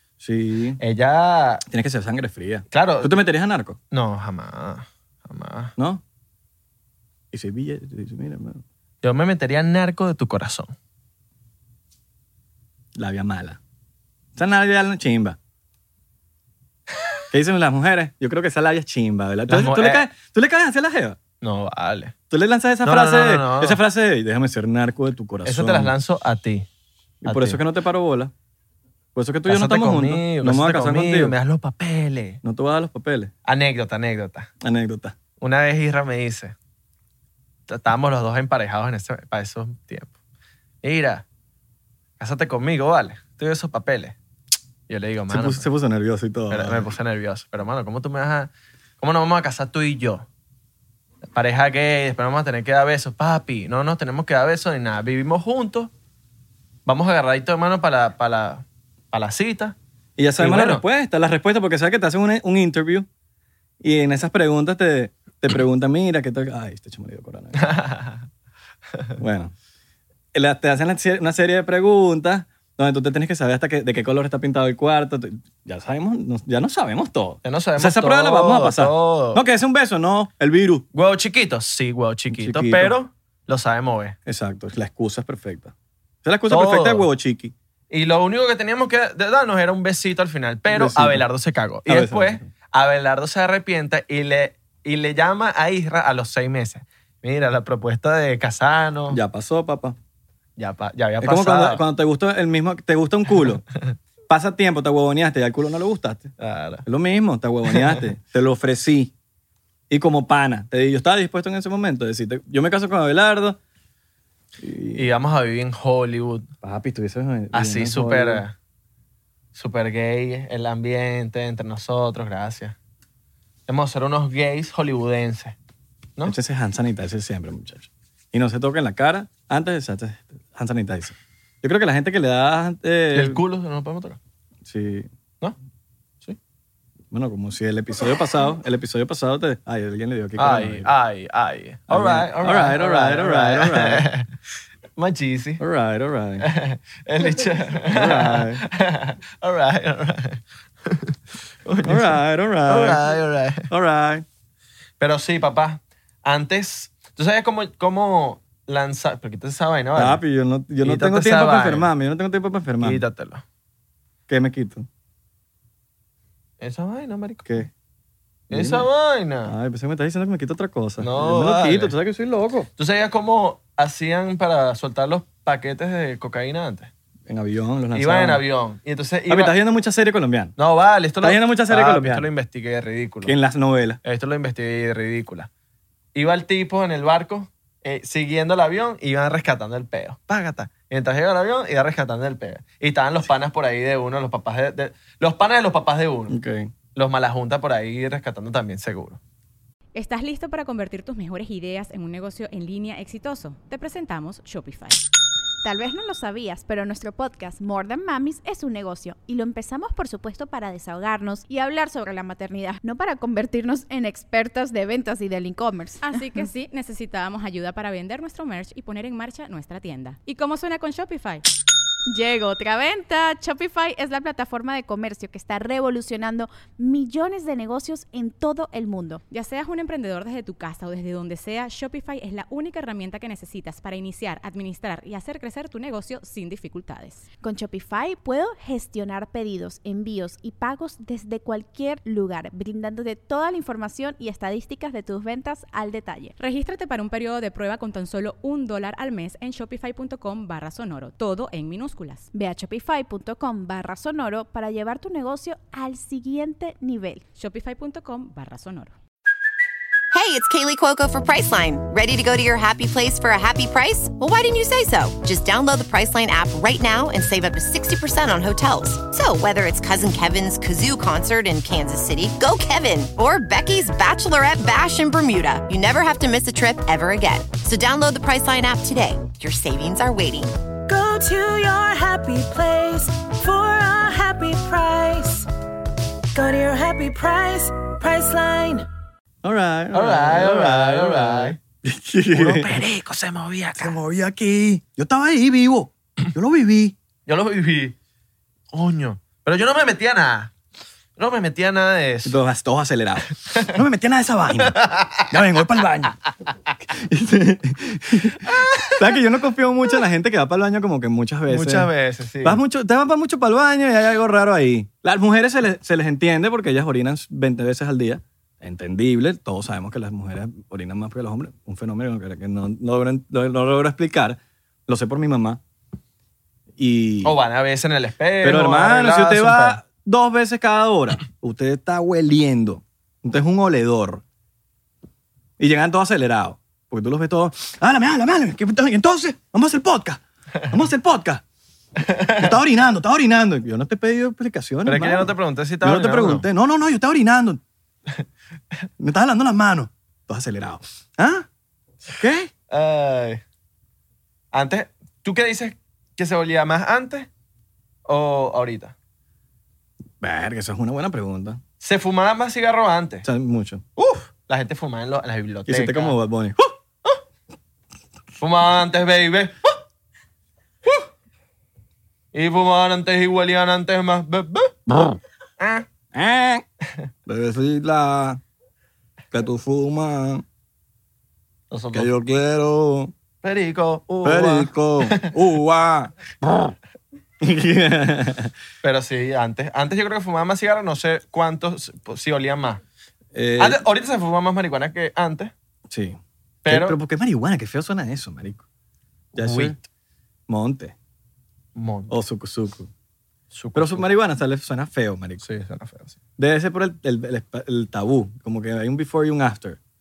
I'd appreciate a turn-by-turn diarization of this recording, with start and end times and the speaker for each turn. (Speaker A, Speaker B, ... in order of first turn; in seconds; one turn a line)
Speaker A: 0.2-0.8
Speaker B: 0.8-1.6
Speaker A: 1.7-3.8
Speaker B: 2.7-3.2
Speaker B: 3.9-5.7
Speaker A: 5.8-6.0
Speaker A: 7.3-8.6
Speaker B: 9.0-10.7
Speaker A: 12.9-13.6
Speaker A: 14.3-15.4
Speaker A: 17.3-21.2
Speaker B: 19.5-20.0
Speaker B: 21.4-22.1
Speaker A: 22.3-25.9
Speaker B: 22.8-23.8
Speaker B: 25.4-26.7
Speaker A: 27.2-28.3
Speaker B: 27.2-27.6
Speaker A: 29.1-31.3
Speaker B: 29.4-32.4
Speaker A: 32.4-33.3
Speaker B: 33.4-34.5
Speaker A: 34.6-35.1
Speaker B: 35.4-36.5
Speaker B: 37.7-40.1
Speaker B: 40.8-41.2
Speaker B: 42.2-44.1
Speaker B: 44.9-45.7
Speaker A: 45.3-46.9
Speaker B: 46.5-50.2
Speaker B: 51.3-55.9
Speaker B: 56.9-59.8
Speaker A: 60.2-63.1
Speaker B: 60.4-60.8
Speaker A: 63.8-67.7
Speaker B: 67.6-68.2
Speaker A: 69.2-69.5
Speaker A: 70.3-80.8
Speaker B: 77.4-79.4
Speaker B: 80.9-84.2
Speaker A: 82.3-82.9
Speaker A: 84.2-85.7
Speaker A: 86.2-87.5
Speaker B: 86.5-87.1
Speaker B: 87.9-99.2
Speaker A: 90.7-91.2
Speaker A: 91.8-92.5
Speaker A: 99.1-100.0
Speaker B: 100.6-101.8
Speaker A: 101.2-103.6
Speaker A: 104.3-106.3
Speaker B: 106.4-106.8
Speaker A: 106.8-109.1
Speaker B: 107.7-108.0
Speaker A: 109.9-113.6
Speaker A: 114.6-115.0
Speaker B: 114.9-116.5
Speaker A: 116.6-118.4
Speaker B: 117.5-118.5
Speaker B: 119.5-122.8
Speaker B: 123.7-125.5
Speaker A: 126.2-133.4
Speaker B: 133.1-134.2
Speaker A: 134.6-135.1
Speaker A: 137.1-140.9
Speaker B: 140.4-144.3
Speaker A: 141.9-144.1
Speaker B: 145.0-145.6
Speaker A: 145.6-146.5
Speaker B: 146.4-153.7
Speaker A: 147.8-148.6
Speaker A: 151.8-153.0
Speaker A: 153.7-154.2
Speaker B: 155.0-160.2
Speaker A: 159.9-163.0
Speaker B: 160.8-161.9
Speaker B: 162.8-163.4
Speaker A: 164.3-164.9
Speaker B: 166.6-167.4
Speaker A: 167.4-167.7
Speaker A: 168.5-168.9
Speaker B: 168.5-169.5
Speaker A: 169.4-172.7
Speaker B: 171.0-171.9
Speaker B: 172.8-176.9
Speaker A: 177.3-178.4
Speaker B: 177.9-179.6
Speaker A: 179.3-180.5
Speaker B: 180.6-183.3
Speaker A: 181.2-182.3
Speaker A: 183.2-184.0
Speaker B: 184.0-185.5
Speaker B: 186.1-196.3
Speaker A: 196.3-196.7
Speaker B: 196.9-199.2
Speaker C: 199.9-205.0
Speaker D: 205.6-216.2
Speaker C: 216.0-221.4
Speaker D: 222.1-229.2
Speaker C: 229.3-237.3
Speaker D: 237.4-246.3
Speaker C: 246.4-252.3
Speaker D: 252.3-257.2
Speaker C: 257.4-258.9
Speaker E: 260.1-280.5
Speaker F: 280.9-285.5
Speaker F: 286.3-288.9
Speaker A: 289.4-292.8
Speaker B: 289.9-291.6
Speaker B: 292.3-294.0
Speaker A: 293.8-296.9
Speaker B: 297.3-297.9
Speaker B: 298.7-300.5
Speaker B: 301.2-302.4
Speaker A: 302.2-306.2
Speaker A: 306.8-311.9
Speaker B: 308.5-308.9
Speaker B: 311.5-312.6
Speaker A: 312.4-325.6
Speaker A: 326.8-327.4
Speaker B: 327.2-329.8
Speaker A: 328.4-334.2
Speaker A: 335.6-341.4
Speaker B: 342.0-342.5
Speaker A: 342.3-347.6
Speaker B: 344.9-346.5
Speaker A: 349.0-351.5
Speaker A: 352.1-352.5
Speaker B: 352.7-353.4
Speaker B: 354.5-357.3
Speaker B: 358.0-358.9
Speaker A: 360.2-361.6
Speaker B: 361.8-363.2
Speaker A: 363.2-363.9
Speaker B: 364.0-366.2
Speaker A: 365.7-366.7
Speaker B: 368.4-369.8
Speaker B: 372.3-374.9
Speaker B: 375.6-375.8
Speaker A: 376.1-376.6
Speaker A: 377.2-378.4
Speaker A: 379.3-380.4
Speaker B: 381.7-382.1
Speaker A: 381.9-383.1
Speaker B: 383.4-385.3
Speaker A: 384.2-386.7
Speaker A: 387.4-388.5
Speaker B: 388.8-392.8
Speaker A: 393.3-393.8
Speaker B: 393.6-395.5
Speaker A: 395.9-398.6
Speaker B: 396.6-397.0
Speaker A: 399.3-399.8
Speaker B: 399.4-399.8
Speaker A: 400.5-400.9
Speaker B: 401.7-402.2
Speaker A: 402.1-402.9
Speaker B: 403.5-404.1
Speaker A: 403.7-405.4
Speaker B: 405.4-406.1
Speaker A: 406.4-409.8